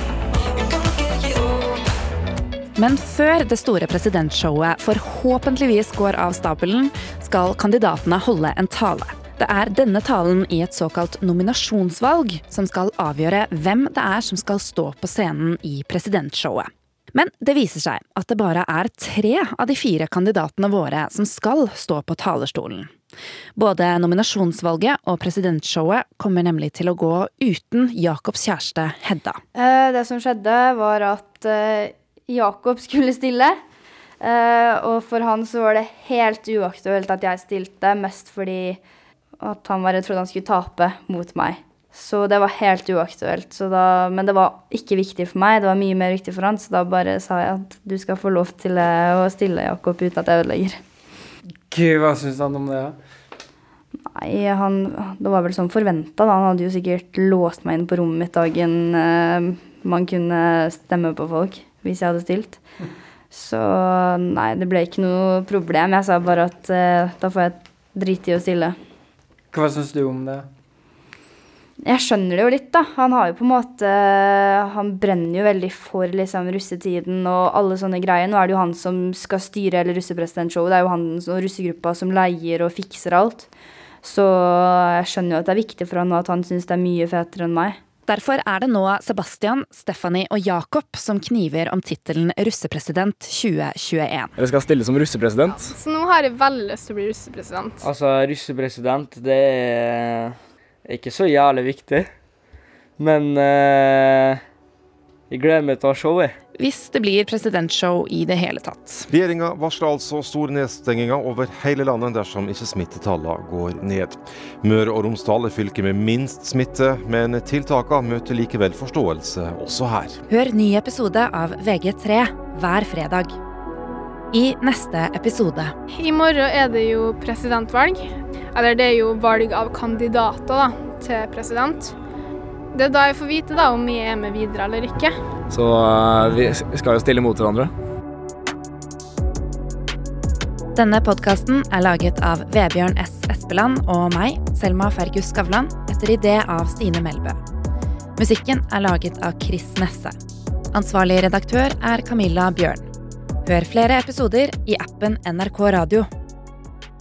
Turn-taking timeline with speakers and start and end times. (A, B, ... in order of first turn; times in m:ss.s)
0:02.8-0:22.9 A
0:23.6-0:29.4 A
0:29.6-0:33.5 B
0:34.2-0:38.8 B
0:39.4-0:50.7 B
0:51.7-0:53.0 C
0:54.2-1:02.6 B
1:03.3-1:08.7 B
1:09.5-1:10.4 C
1:11.8-1:23.5 B
1:24.0-1:27.8 B
1:28.1-1:34.3 A
1:34.4-1:35.8 D
1:35.6-1:37.8 E
1:37.8-1:42.1 F
1:43.0-1:44.4 F
1:45.3-1:46.3 F
1:46.6-1:49.1 A
1:49.1-2:00.2 G
2:00.3-2:03.4 A
2:04.3-2:05.7 A
2:05.9-2:12.0 E
2:12.7-2:15.2 E
2:15.5-2:17.7 D
2:20.8-2:27.4 A
2:28.2-2:30.1 A
2:30.7-2:32.9 A
2:33.4-2:36.1 A